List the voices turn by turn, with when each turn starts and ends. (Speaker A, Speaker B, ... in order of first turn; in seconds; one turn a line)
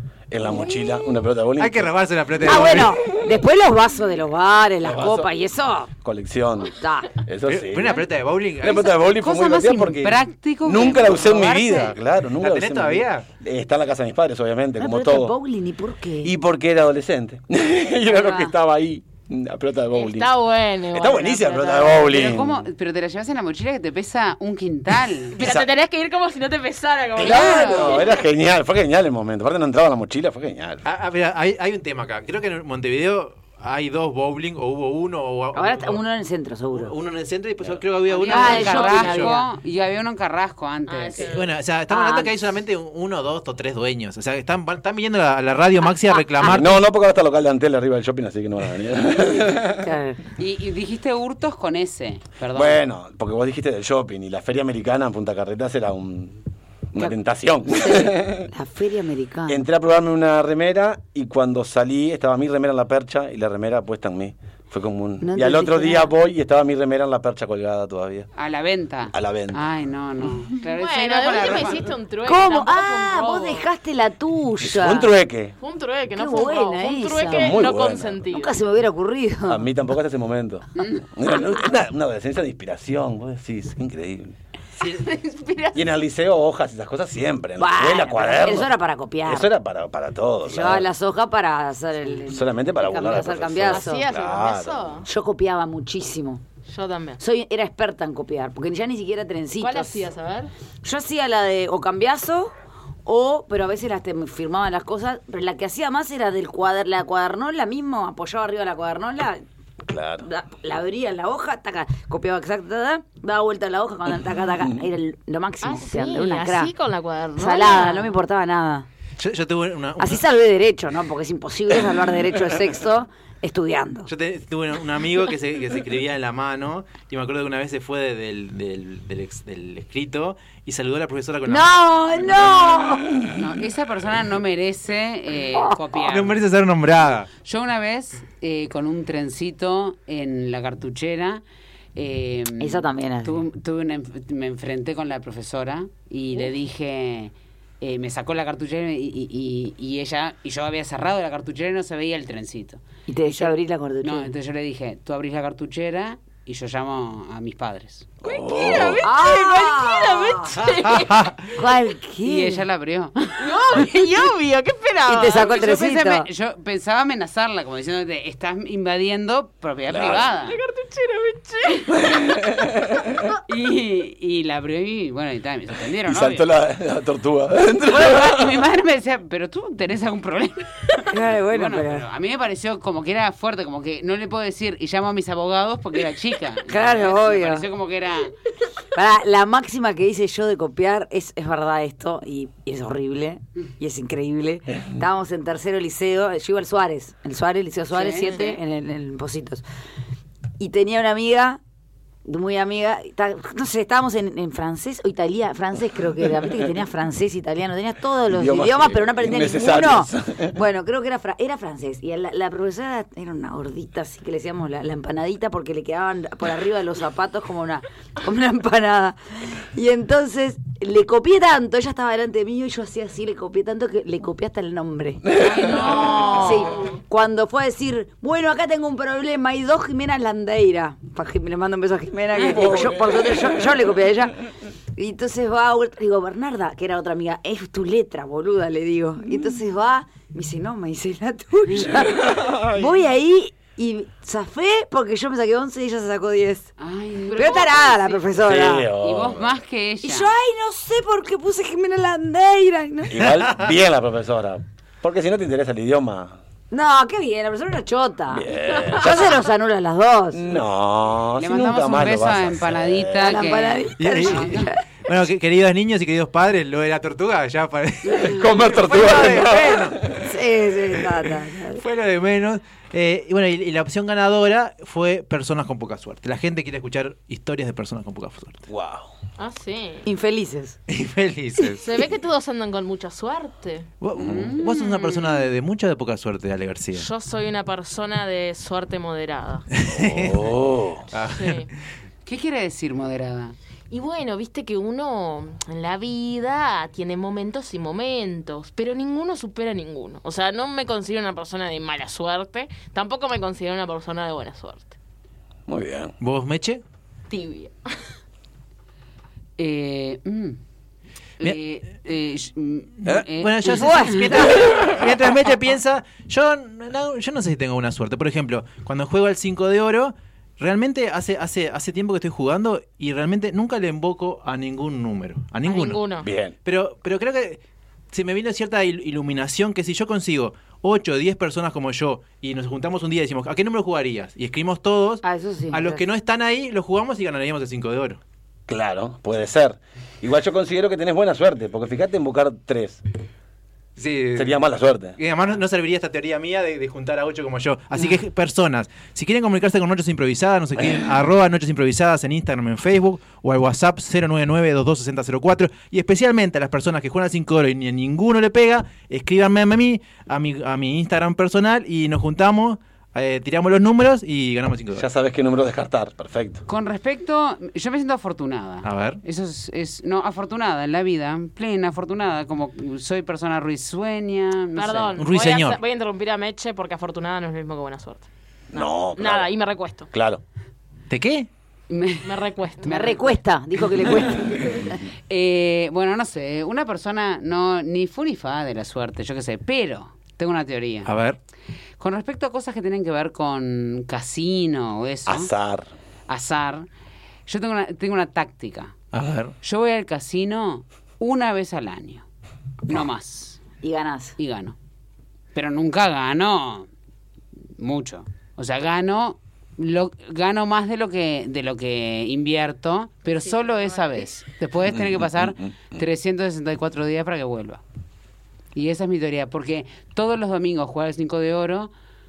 Speaker A: 0.3-1.9
Speaker B: 1.6-3.0
Speaker C: 2.4-5.9
Speaker A: 2.4-2.9
Speaker A: 4.8-5.3
Speaker B: 4.9-5.2
Speaker A: 6.0-15.4
Speaker C: 6.7-7.2
Speaker B: 7.5-8.9
Speaker D: 9.0-11.9
Speaker B: 12.4-13.3
Speaker C: 14.8-16.3
Speaker A: 16.2-20.3
Speaker C: 18.1-18.5
Speaker E: 19.9-22.2
Speaker A: 20.9-22.6
Speaker D: 22.0-25.4
Speaker E: 25.3-28.1
Speaker A: 25.4-25.7
Speaker D: 27.2-28.0
Speaker A: 27.2-30.8
Speaker C: 27.2-27.9
Speaker B: 30.8-36.0
Speaker C: 35.5-37.0
Speaker B: 36.7-39.4
Speaker D: 38.1-41.3
Speaker C: 38.3-39.5
Speaker E: 38.5-39.3
Speaker E: 40.9-41.5
Speaker B: 41.3-46.8
Speaker C: 41.9-42.3
Speaker A: 46.4-49.9
Speaker C: 49.8-50.2
Speaker D: 50.4-52.8
Speaker A: 52.5-56.4
Speaker A: 56.9-58.5
Speaker C: 57.7-59.6
Speaker A: 59.5-68.3
Speaker C: 65.2-66.1
Speaker D: 68.4-71.9
Speaker A: 69.1-69.6
Speaker E: 70.7-73.7
Speaker C: 72.2-75.1
Speaker A: 74.6-75.5
Speaker E: 75.6-78.6
Speaker C: 76.1-77.7
Speaker A: 77.3-78.2
Speaker C: 78.3-79.7
Speaker A: 79.5-84.3
Speaker D: 80.8-81.0
Speaker A: 85.7-88.7
Speaker C: 87.6-89.5
Speaker A: 89.2-90.9
Speaker C: 90.5-94.0
Speaker A: 92.2-94.9
Speaker E: 93.7-95.1
Speaker C: 95.0-96.4
Speaker E: 96.7-97.2
Speaker C: 97.2-100.1
Speaker E: 99.6-100.5
Speaker C: 100.8-102.5
Speaker C: 103.1-109.4
Speaker A: 109.9-110.3
Speaker C: 110.2-116.7
Speaker E: 115.6-118.2
Speaker C: 117.4-118.9
Speaker B: 119.2-120.2
Speaker C: 120.0-124.1
Speaker B: 124.1-132.6
Speaker C: 131.5-133.3
Speaker D: 133.3-136.4
Speaker B: 136.1-137.3
Speaker D: 137.4-141.4
Speaker D: 141.9-158.1
Speaker C: 142.6-143.4
Speaker C: 153.1-154.3
Speaker A: 158.2-159.1
Speaker E: 158.2-161.3
Speaker C: 159.0-160.6
Speaker B: 160.6-161.5
Speaker C: 161.6-162.7
Speaker D: 162.2-163.6
Speaker E: 163.4-165.4
Speaker C: 165.1-166.3
Speaker D: 165.3-170.6
Speaker A: 169.9-170.3
Speaker E: 170.4-172.1
Speaker A: 172.0-173.1
Speaker D: 173.5-176.5
Speaker A: 176.1-178.6
Speaker D: 177.8-188.3
Speaker C: 181.1-182.1
Speaker C: 186.7-187.7
Speaker C: 188.9-199.6
Speaker D: 197.9-198.5
Speaker E: 198.2-198.6
Speaker C: 200.6-201.6
Speaker C: 202.2-234.4
Speaker A: 208.3-210.6
Speaker D: 225.4-226.9
Speaker E: 225.7-226.9
Speaker D: 232.4-232.8
Speaker A: 232.5-233.7
Speaker C: 235.0-246.7
Speaker A: 242.1-242.9
Speaker D: 246.8-248.2
Speaker C: 247.3-248.9
Speaker A: 248.4-249.5
Speaker D: 249.0-250.3
Speaker C: 250.0-253.2
Speaker A: 253.1-256.4
Speaker C: 256.7-260.5
Speaker A: 258.3-259.4
Speaker A: 260.3-263.5
Speaker D: 261.4-264.7
Speaker C: 263.2-264.8
Speaker B: 264.0-270.1
Speaker A: 268.1-270.4
Speaker C: 270.2-271.8
Speaker B: 271.8-278.6
Speaker A: 278.7-279.1
Speaker E: 279.4-280.1
Speaker C: 280.1-280.8
Speaker B: 280.9-282.0
Speaker E: 281.8-283.9
Speaker B: 284.0-287.1
Speaker A: 284.2-284.5
Speaker D: 284.2-284.6
Speaker E: 284.6-285.5
Speaker E: 286.9-289.7
Speaker B: 289.8-290.5
Speaker A: 289.9-291.0
Speaker B: 291.1-291.7
Speaker E: 291.3-291.7
Speaker D: 292.3-293.6
Speaker E: 293.9-304.9
Speaker A: 305.7-306.1
Speaker B: 306.2-306.8
Speaker E: 307.3-307.7
Speaker D: 309.6-310.6
Speaker D: 311.4-314.4
Speaker B: 313.1-326.0
Speaker C: 313.7-314.2
Speaker A: 314.6-315.1
Speaker E: 325.6-326.3
Speaker A: 326.2-326.5
Speaker B: 326.6-327.6
Speaker B: 328.1-338.2
Speaker C: 335.2-336.1
Speaker A: 338.7-343.0
Speaker B: 344.0-344.6
Speaker A: 344.4-345.2
Speaker B: 345.2-365.1
Speaker A: 364.9-366.6
Speaker D: 366.7-375.2
Speaker B: 368.8-369.2
Speaker E: 374.8-380.1
Speaker B: 375.2-375.8
Speaker A: 378.7-379.5
Speaker A: 380.1-380.4
Speaker B: 381.1-381.5
Speaker D: 381.9-383.4
Speaker E: 382.2-383.2
Speaker C: 382.9-385.1
Speaker D: 385.3-391.1
Speaker B: 391.1-391.4
Speaker D: 392.0-395.5
Speaker A: 395.3-395.9
Speaker D: 396.3-396.9
Speaker D: 397.5-398.9
Speaker B: 399.1-399.6
Speaker D: 399.6-402.2
Speaker D: 402.9-403.6
Speaker C: 403.8-404.4
Speaker D: 404.4-404.8
Speaker D: 405.5-406.9
Speaker D: 407.8-417.8
Speaker E: 413.4-414.2
Speaker A: 414.9-416.0
Speaker D: 418.8-421.9